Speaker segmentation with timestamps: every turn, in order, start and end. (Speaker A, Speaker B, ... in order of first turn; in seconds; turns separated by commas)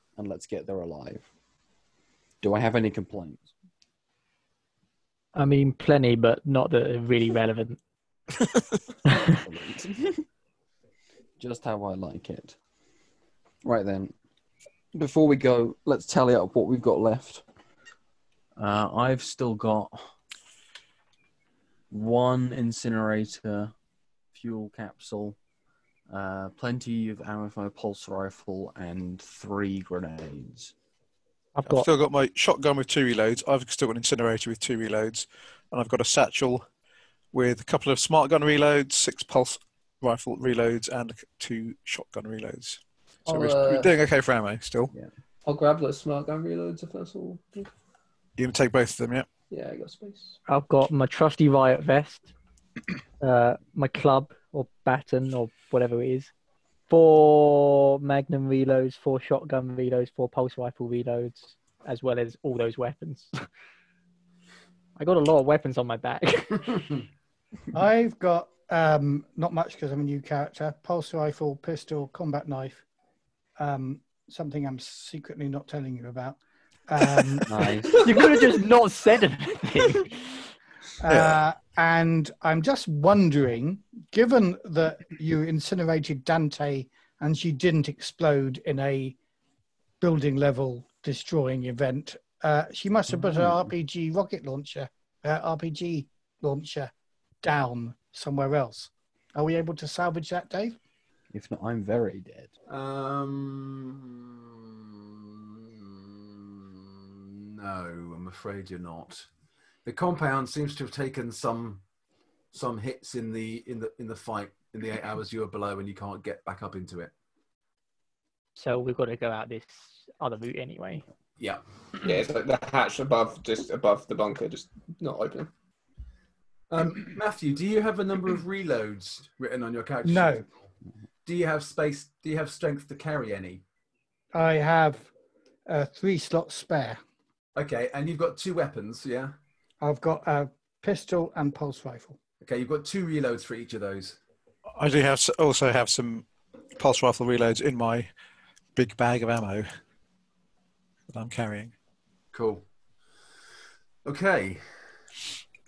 Speaker A: 0.1-1.3, Speaker A: 2.4-3.5, Speaker B: 5.3-7.8, Speaker A: 9.2-10.2, Speaker A: 11.4-12.6, Speaker A: 13.6-14.1, Speaker A: 14.9-17.4, Speaker A: 18.6-20.1, Speaker A: 21.9-23.7, Speaker A: 24.3-25.4, Speaker A: 26.1-30.7, Speaker B: 31.6-31.9, Speaker C: 31.6-36.6, Speaker C: 37.3-44.9, Speaker D: 43.2-43.9, Speaker D: 45.4-47.7, Speaker C: 48.4-49.3, Speaker D: 49.5-50.4, Speaker B: 50.5-52.3, Speaker B: 53.2-56.3, Speaker B: 56.9-63.3, Speaker B: 65.0-66.9, Speaker E: 67.7-72.8, Speaker E: 73.6-77.5, Speaker A: 77.5-77.9, Speaker B: 78.0-80.2, Speaker E: 81.0-89.2, Speaker C: 81.1-81.4, Speaker E: 90.0-96.9, Speaker A: 93.1-93.7, Speaker E: 97.4-100.8, Speaker A: 101.3-102.5, Speaker F: 102.7-109.3, Speaker F: 109.8-111.8, Speaker F: 112.5-117.1, Speaker B: 118.5-121.0, Speaker D: 122.0-125.5, Speaker F: 126.7-130.5, Speaker E: 130.0-130.4, Speaker F: 131.2-133.6, Speaker E: 134.3-135.1, Speaker E: 135.7-137.0, Speaker F: 137.6-139.3, Speaker E: 139.8-142.2, Speaker F: 142.4-144.2, Speaker C: 144.8-146.2, Speaker C: 146.8-148.1, Speaker C: 148.8-149.7, Speaker C: 151.1-151.7, Speaker F: 152.3-152.6, Speaker F: 154.0-154.6